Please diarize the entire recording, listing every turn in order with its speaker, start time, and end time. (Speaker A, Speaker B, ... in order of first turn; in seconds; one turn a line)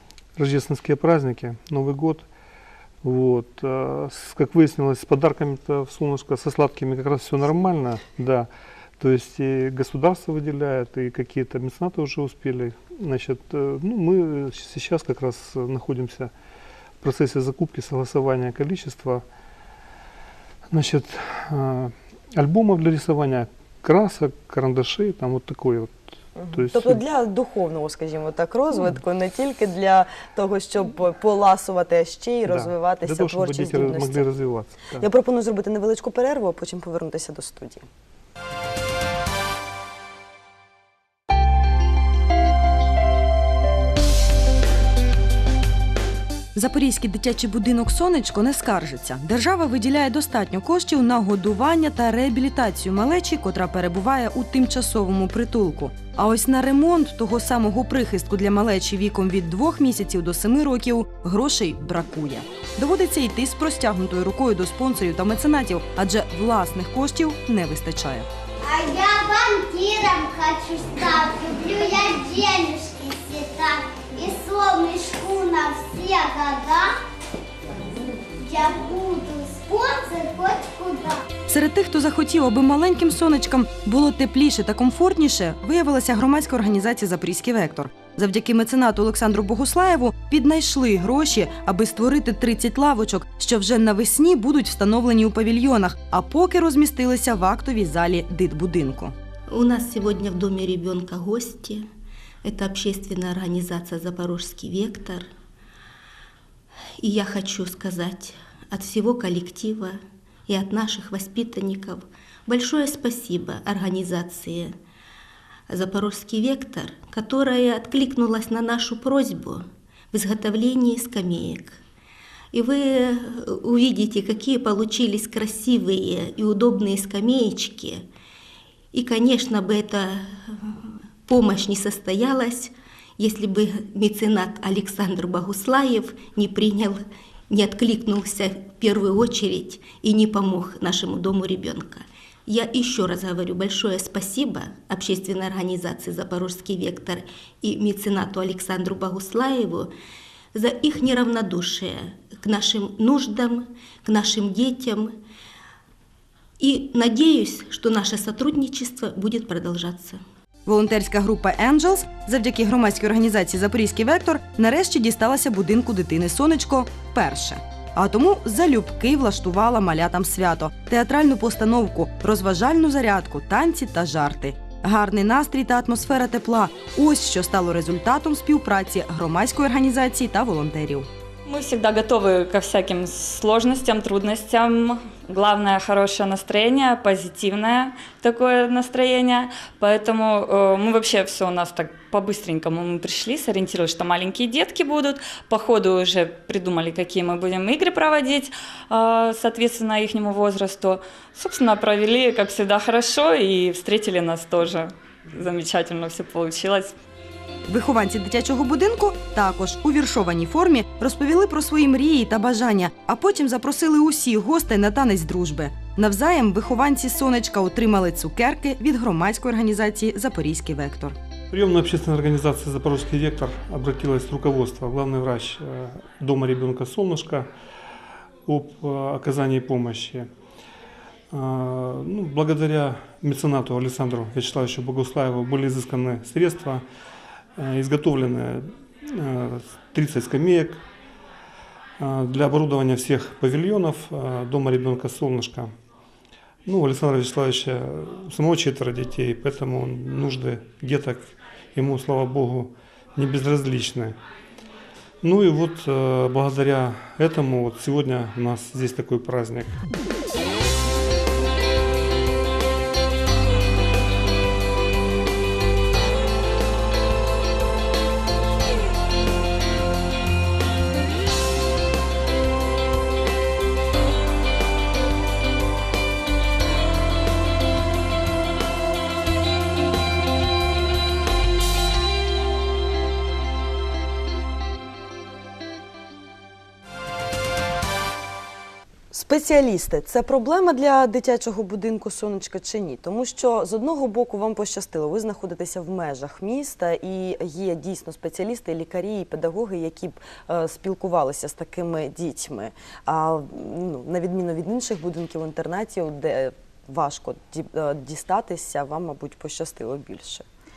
Speaker A: 0.4-2.2
Speaker A: 3.0-16.3
Speaker A: 17.0-19.2
Speaker A: 20.7-26.0
Speaker B: 26.4-34.2
Speaker A: 26.5-27.0
Speaker A: 32.5-35.1
Speaker B: 35.0-37.8
Speaker B: 46.5-68.3
Speaker C: 68.6-76.9
Speaker C: 78.4-81.2
Speaker B: 81.5-99.1
Speaker D: 99.5-101.9
Speaker D: 102.4-105.3
Speaker D: 107.0-114.8
Speaker D: 115.7-121.8
Speaker D: 122.5-128.1
Speaker D: 128.9-149.9
Speaker D: 150.5-155.2
Speaker D: 156.6-160.2
Speaker B: 160.7-181.1
Speaker E: 181.5-206.9
Speaker B: 207.7-221.2
Speaker A: 221.5-227.5
Speaker A: 228.5-230.3
Speaker A: 231.3-236.8
Speaker A: 237.6-240.8
Speaker A: 242.0-245.7
Speaker A: 246.7-254.2
Speaker A: 255.2-259.8
Speaker B: 289.1-310.4